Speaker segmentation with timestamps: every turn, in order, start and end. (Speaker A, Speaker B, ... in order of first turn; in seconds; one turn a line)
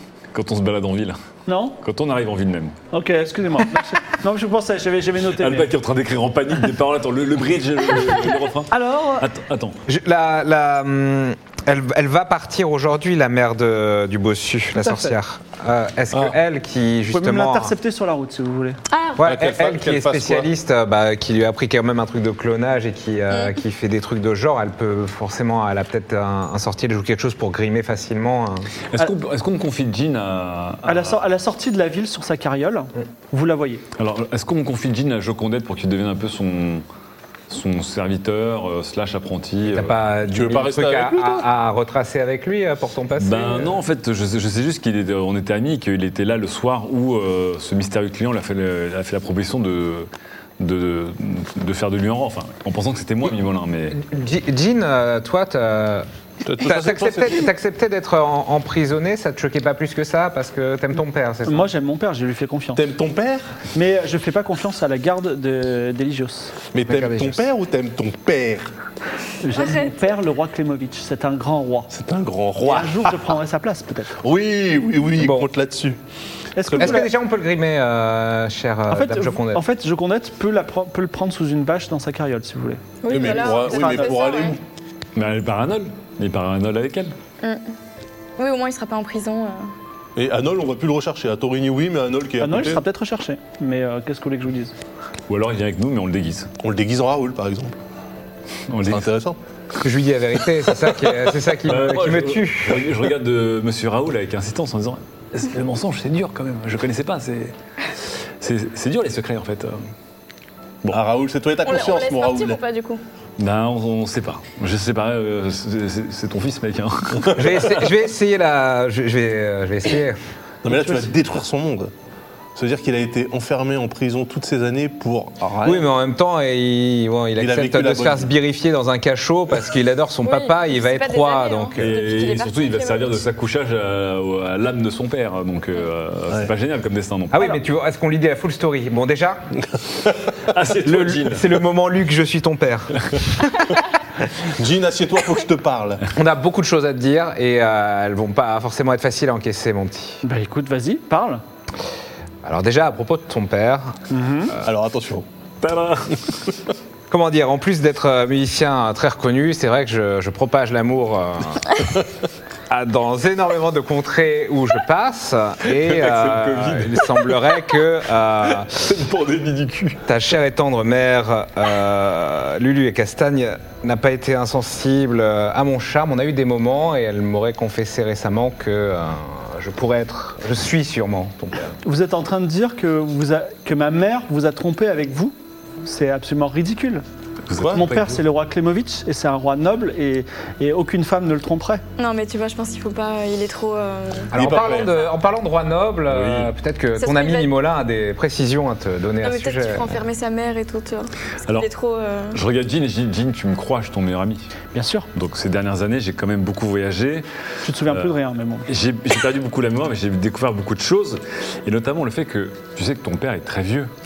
Speaker A: 0.3-1.2
Speaker B: 1.5-1.8
Speaker A: 1.8-2.8
Speaker B: 2.9-5.7
Speaker A: 5.4-9.8
Speaker B: 8.7-9.3
Speaker C: 9.9-17.7
Speaker B: 14.8-15.1
Speaker B: 17.1-18.8
Speaker D: 18.9-19.2
Speaker C: 19.2-28.7
Speaker E: 19.2-20.5
Speaker A: 28.9-31.2
Speaker B: 30.9-33.8
Speaker A: 34.0-36.8
Speaker A: 37.5-40.0
Speaker C: 39.6-43.8
Speaker E: 40.3-41.5
Speaker A: 43.2-54.0
Speaker C: 53.9-56.0
Speaker E: 56.4-57.5
Speaker C: 56.6-61.7
Speaker B: 61.5-62.8
Speaker E: 62.7-63.5
Speaker B: 63.7-66.5
Speaker E: 66.7-68.7
Speaker C: 66.9-67.5
Speaker B: 69.4-71.9
Speaker D: 69.5-70.0
Speaker E: 71.9-73.2
Speaker B: 72.6-74.1
Speaker E: 74.2-76.0
Speaker C: 75.2-75.5
Speaker B: 76.5-77.1
Speaker E: 76.6-77.0
Speaker C: 76.8-79.6
Speaker B: 78.9-82.8
Speaker D: 83.0-84.6
Speaker E: 83.1-84.6
Speaker B: 83.6-84.2
Speaker A: 85.1-87.1
Speaker D: 87.4-87.7
Speaker D: 88.4-89.7
Speaker E: 90.2-92.8
Speaker B: 92.4-94.7
Speaker A: 95.3-96.5
Speaker E: 96.6-97.7
Speaker A: 98.7-99.1
Speaker E: 98.8-99.4
Speaker C: 99.8-102.9
Speaker A: 101.6-107.5
Speaker A: 108.4-109.8
Speaker E: 110.9-112.6
Speaker D: 111.6-113.0
Speaker A: 113.4-117.8
Speaker C: 117.3-120.2
Speaker E: 120.6-121.9
Speaker B: 120.7-121.1
Speaker E: 122.5-125.9
Speaker C: 125.6-132.0
Speaker E: 127.4-128.3
Speaker D: 130.2-133.2
Speaker A: 131.8-137.6
Speaker C: 137.3-139.4
Speaker A: 140.5-141.5
Speaker C: 140.8-143.2
Speaker E: 144.5-146.0
Speaker C: 146.1-150.2
Speaker B: 150.2-151.4
Speaker C: 152.4-154.0
Speaker B: 154.1-154.5
Speaker E: 154.6-155.2
Speaker A: 155.6-156.2
Speaker C: 157.1-161.8
Speaker C: 162.7-168.8
Speaker A: 165.7-167.5
Speaker A: 168.4-170.0
Speaker C: 170.1-181.8
Speaker B: 181.8-187.0
Speaker A: 187.5-188.2
Speaker E: 187.6-187.8
Speaker B: 187.7-191.8
Speaker D: 192.0-194.3
Speaker C: 194.3-200.0
Speaker E: 194.3-194.9
Speaker A: 196.1-196.5
Speaker D: 197.0-197.5
Speaker D: 199.2-202.4
Speaker A: 202.3-204.5
Speaker B: 204.7-205.1
Speaker A: 205.1-207.2
Speaker B: 207.6-208.7
Speaker A: 207.8-208.1
Speaker A: 208.7-213.9